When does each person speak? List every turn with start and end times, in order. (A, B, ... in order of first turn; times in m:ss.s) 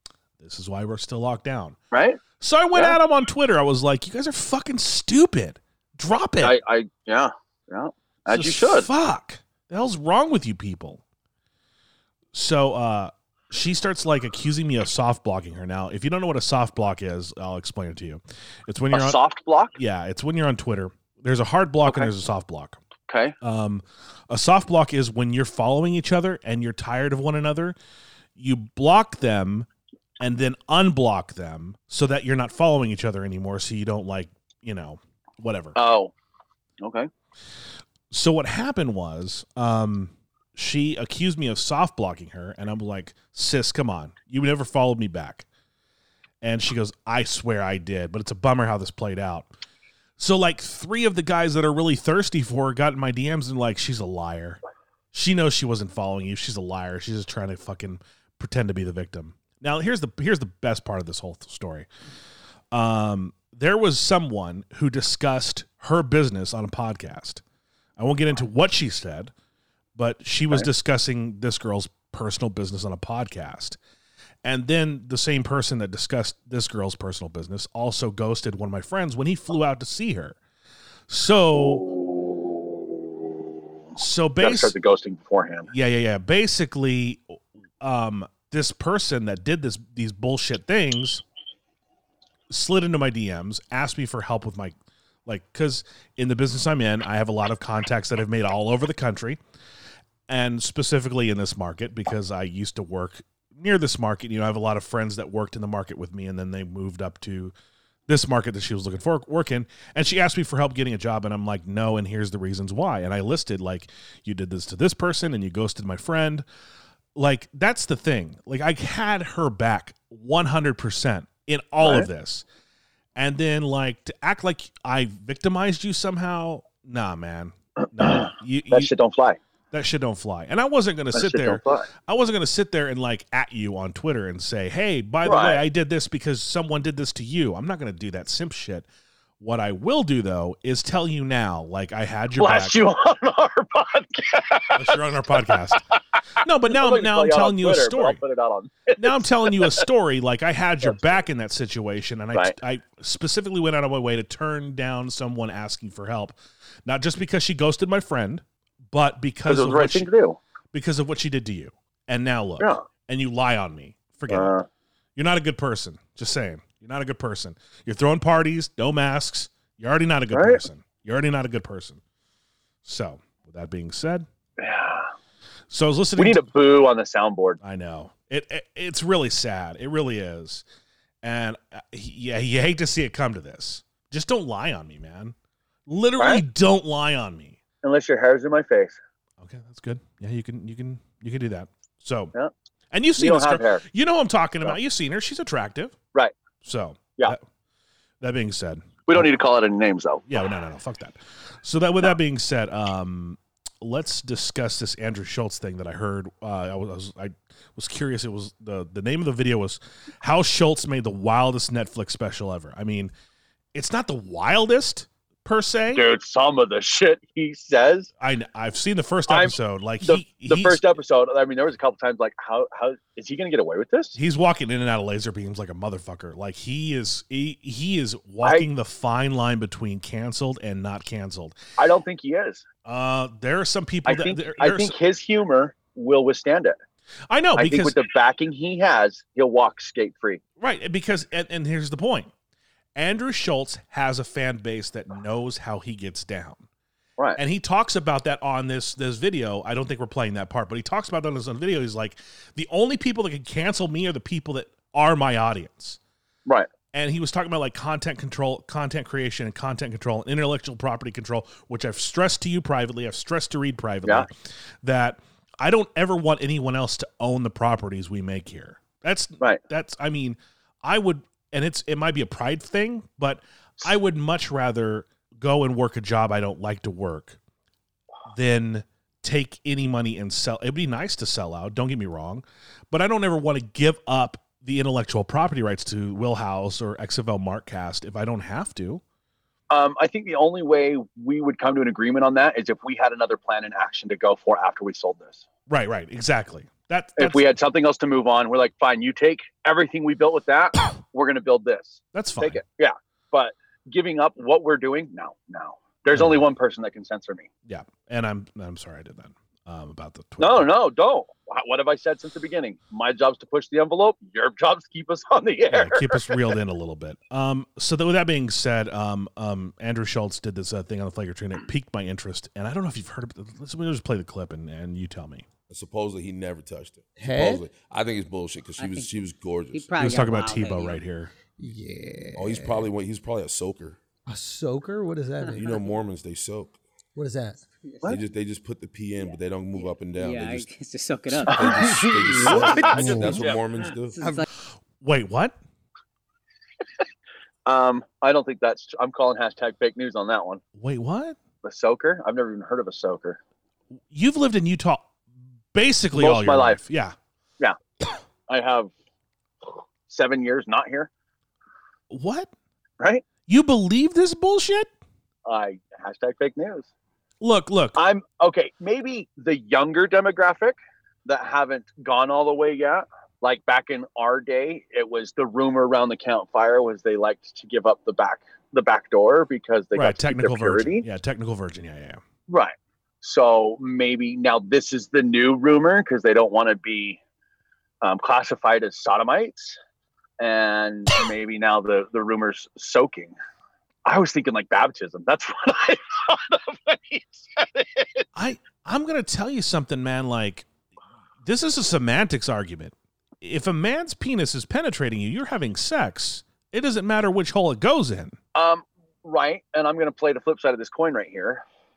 0:00.4-0:01.8 A
0:01.9-0:02.2 B
0:02.4-0:06.6 A
0:06.4-0:08.9 B
0:08.3-0:11.0 A
0:12.3-0:19.2 A
0:18.9-0:19.8 B
0:19.8-0:22.8 A
0:21.8-0:22.1 B
0:23.1-0:23.4 B
0:23.4-0:27.8 A
0:28.4-0:29.7 A
0:30.2-0:35.8 A
0:35.8-0:36.1 B
0:36.8-0:37.1 B
0:38.1-0:45.5 A
0:46.4-0:49.5 A
0:50.2-0:54.6 A
0:55.1-1:01.9 A
1:02.7-1:07.4 A
1:08.0-1:09.3 A
1:09.9-1:13.8 A
1:14.4-1:20.4 A
1:21.1-1:21.8 A
1:21.5-1:23.0 B
1:24.0-1:24.7 A
1:24.4-1:25.7 B
1:25.7-1:31.2 A
1:32.5-1:39.4 A
1:40.3-1:47.5 A
1:48.1-1:56.4 A
1:57.1-2:02.4 A
2:01.8-2:02.1 B
2:03.2-2:08.9 A
2:08.0-2:09.4 B
2:09.7-2:18.8 A
2:11.1-2:11.9 B
2:15.2-2:15.6 B
2:19.4-2:22.9 A
2:22.4-2:25.8 B
2:24.7-2:25.8 A
2:26.4-2:28.2 A
2:26.7-2:29.8 B
2:29.0-2:40.1 A
2:39.4-2:40.4 B
2:40.7-2:44.5 A
2:42.6-2:42.8 B
2:44.3-2:44.6 B
2:45.2-2:52.0 A
2:50.3-2:50.6 B
2:52.8-2:54.3 A
2:54.6-2:55.1 B
2:55.7-2:56.4 A
2:56.2-2:57.6 B
2:57.6-3:00.6 A
3:01.2-3:05.3 A
3:05.9-3:07.6 A
3:06.2-3:06.4 B
3:07.8-3:09.0 B
3:09.4-3:12.3 A
3:12.9-3:16.0 A
3:13.2-3:13.8 B
3:16.6-3:17.4 A
3:18.2-3:19.3 A
3:19.1-3:20.3 B
3:20.3-3:33.1 A
3:33.7-3:36.0 A
3:35.9-3:38.1 B
3:38.2-3:40.8 A
3:39.3-3:44.2 B
3:44.2-3:51.6 A
3:51.8-3:52.7 B
3:52.8-3:54.9 A
3:54.0-3:56.8 B
3:57.3-3:57.9 A
3:57.6-4:00.4 B
4:00.6-4:02.3 A
4:02.9-4:06.6 A
4:07.4-4:16.0 A
4:16.9-4:24.3 A
4:24.8-4:37.4 A
4:38.3-4:49.0 A
4:49.7-4:55.5 B
4:55.7-4:57.6 A
4:57.2-5:07.5 B
5:02.1-5:02.6 A
5:06.1-5:06.4 A
5:07.6-5:10.7 A
5:10.4-5:16.4 B
5:15.7-5:25.5 A
5:25.7-5:30.0 C
5:27.2-5:27.7 D
5:28.8-5:31.0 E
5:30.0-5:31.3 A
5:31.6-5:32.9 D
5:32.3-5:34.0 C
5:34.3-5:35.9 D
5:35.4-5:35.8 E
5:35.5-5:36.8 C
5:37.1-5:37.6 D
5:37.8-5:38.1 E
5:38.0-5:40.7 C
5:39.2-5:43.3 E
5:41.3-5:44.3 C
5:41.4-5:43.6 B
5:41.8-5:43.5 D
5:44.0-5:44.5 E
5:45.0-5:45.6 A
5:47.6-5:50.6 B
5:50.7-5:51.4 A
5:51.6-5:53.4 B
5:54.1-5:55.1 A
5:55.7-5:57.2 A
5:56.1-5:56.8 B
5:58.5-5:58.9 B
6:00.1-6:01.1 B
6:02.1-6:02.5 A
6:03.5-6:04.9 A
6:05.4-6:06.9 B
6:07.4-6:08.0 A
6:08.0-6:21.0 B
6:19.9-6:22.2 A
6:22.5-6:27.2 B
6:28.0-6:29.8 B
6:30.4-6:33.3 B
6:34.0-6:38.2 B
6:38.3-6:40.7 A
6:41.4-6:48.4 A
6:48.5-6:51.6 B